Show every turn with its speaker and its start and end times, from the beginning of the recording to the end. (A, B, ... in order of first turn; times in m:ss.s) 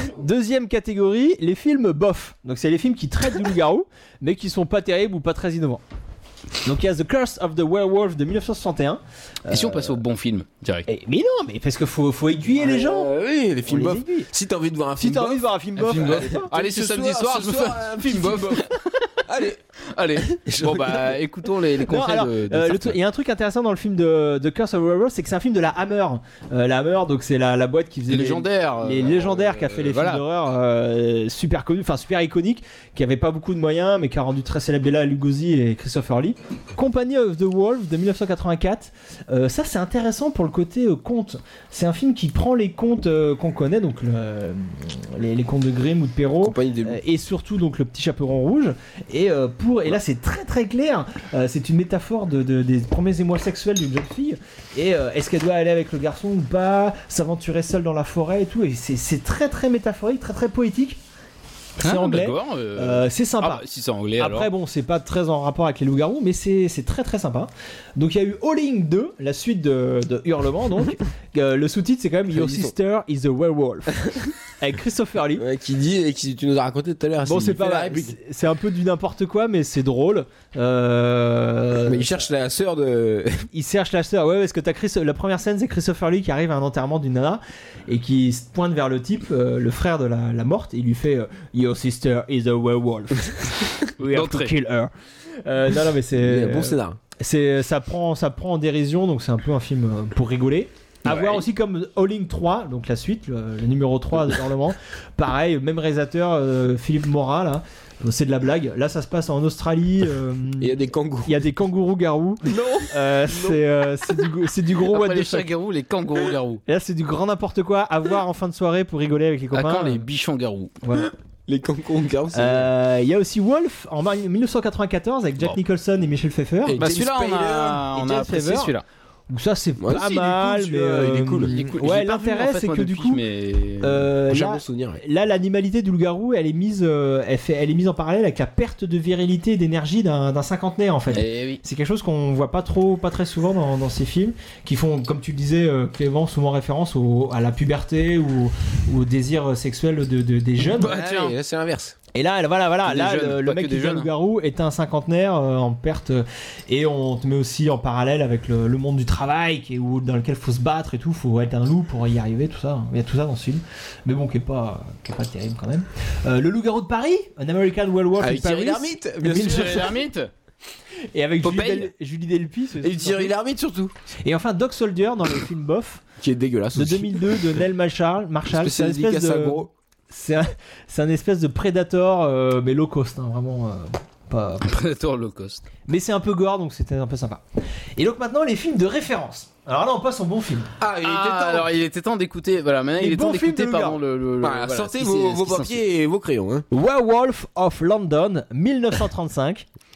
0:00.2-0:05.8 A
0:06.6-0:10.0 A
0:09.5-0:10.9 B
0:10.9-0:13.1 A
0:12.6-0:18.7 C
0:13.7-0:14.3 A
0:15.0-0:16.6 A
0:15.8-0:18.8 B
0:19.2-0:19.6 C
0:19.9-0:23.0 B
0:20.2-0:21.2 C
0:21.9-1:01.0 A
0:28.1-0:30.2 B
0:46.4-0:47.0 C
1:01.8-1:03.6 A
1:01.8-1:04.5 B
1:04.2-1:15.4 A
1:12.3-1:12.7 C
1:15.3-1:18.2 C
1:17.2-1:22.2 A
1:21.8-1:23.5 C
1:23.5-1:34.9 A
1:34.0-1:34.5 B
1:35.4-1:50.7 A
1:36.2-1:37.0 C
1:41.1-1:41.4 C
1:50.6-1:51.4 C
1:51.2-1:55.5 A
1:52.4-1:53.6 C
1:54.9-1:56.6 B
1:56.7-2:00.0 A
1:59.5-2:00.7 B
2:00.8-2:01.1 A
2:01.0-2:02.7 C
2:02.3-2:06.8 A
2:06.6-2:07.9 C
2:06.8-2:08.8 B
2:07.9-2:08.7 A
2:09.3-2:13.2 A
2:09.8-2:11.6 C
2:11.5-2:14.1 B
2:13.8-2:31.0 A
2:14.2-2:15.0 C
2:21.1-2:21.6 B
2:30.6-2:31.9 C
2:30.8-2:31.4 B
2:32.1-2:50.0 A
2:32.8-2:34.1 B
2:48.2-2:49.9 C
2:49.3-2:50.3 B
2:51.1-2:53.3 A
2:51.4-2:51.9 C
2:52.8-2:53.9 C
2:54.2-2:56.0 A
2:56.2-2:57.6 C
2:56.7-3:04.6 A
2:58.5-2:59.7 C
3:04.6-3:05.6 B
3:05.9-3:07.4 A
3:08.0-3:10.7 A
3:10.8-3:11.7 C
3:11.0-3:15.8 B
3:13.0-3:14.0 A
3:14.4-3:16.6 C
3:16.7-3:19.6 A